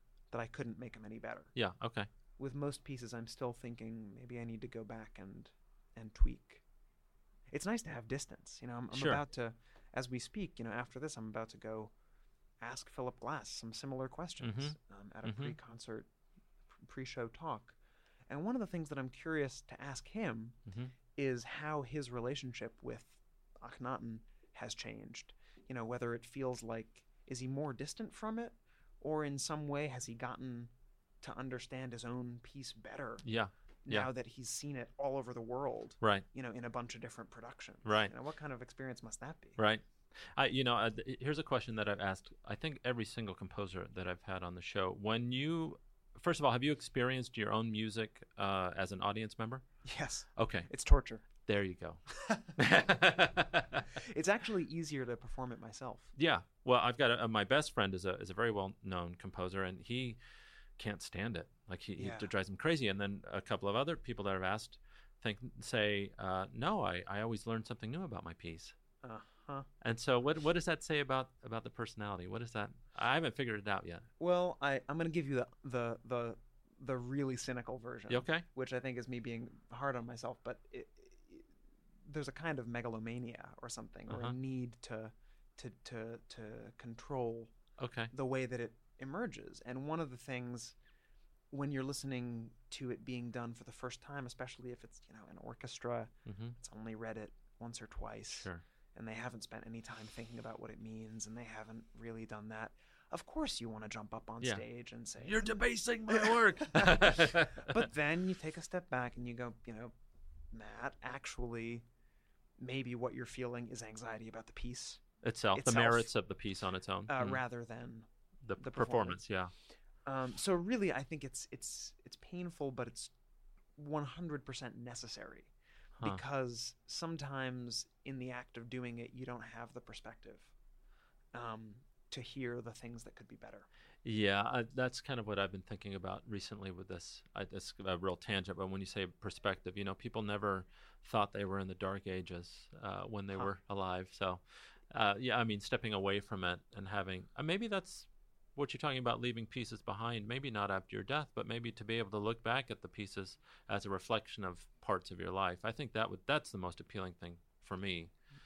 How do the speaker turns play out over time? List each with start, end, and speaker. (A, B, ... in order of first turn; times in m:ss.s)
0:00.3-0:01.5 A
0:01.5-0:02.1 B
0:02.4-0:06.6 A
0:07.5-0:11.9 A
0:08.9-0:09.2 B
0:12.6-0:16.1 A
0:14.4-0:15.6 B
0:16.8-0:17.8 A
0:18.3-0:20.6 A
0:20.7-0:20.9 B
0:21.1-0:30.7 A
0:31.2-0:33.2 A
0:33.2-0:34.1 B
0:33.8-0:39.6 A
0:37.8-0:38.1 B
0:39.6-0:49.6 B
0:49.8-0:51.2 A
0:50.4-0:50.7 B
0:51.4-0:52.0 B
0:52.2-0:52.5 A
0:52.5-0:53.9 B
0:53.9-0:56.1 A
0:56.1-1:00.2 B
1:00.8-1:08.7 B
1:02.0-1:02.3 A
1:09.0-1:09.7 A
1:09.8-1:14.1 B
1:14.2-1:21.5 A
1:18.1-1:18.4 B
1:22.0-1:27.5 A
1:24.1-1:24.3 B
1:27.8-1:28.1 B
1:28.1-1:30.8 A
1:31.5-1:45.5 A
1:36.3-1:36.5 B
1:38.3-1:38.6 B
1:45.2-1:47.9 B
1:46.1-1:49.9 A
1:50.5-1:51.8 A
1:52.6-1:55.0 A
1:55.2-1:57.4 B
1:55.5-1:56.1 A
1:57.1-1:59.2 A
1:58.4-1:59.5 B
2:00.0-2:03.1 A
2:03.8-2:10.5 A
2:11.3-2:13.7 A
2:14.0-2:38.1 B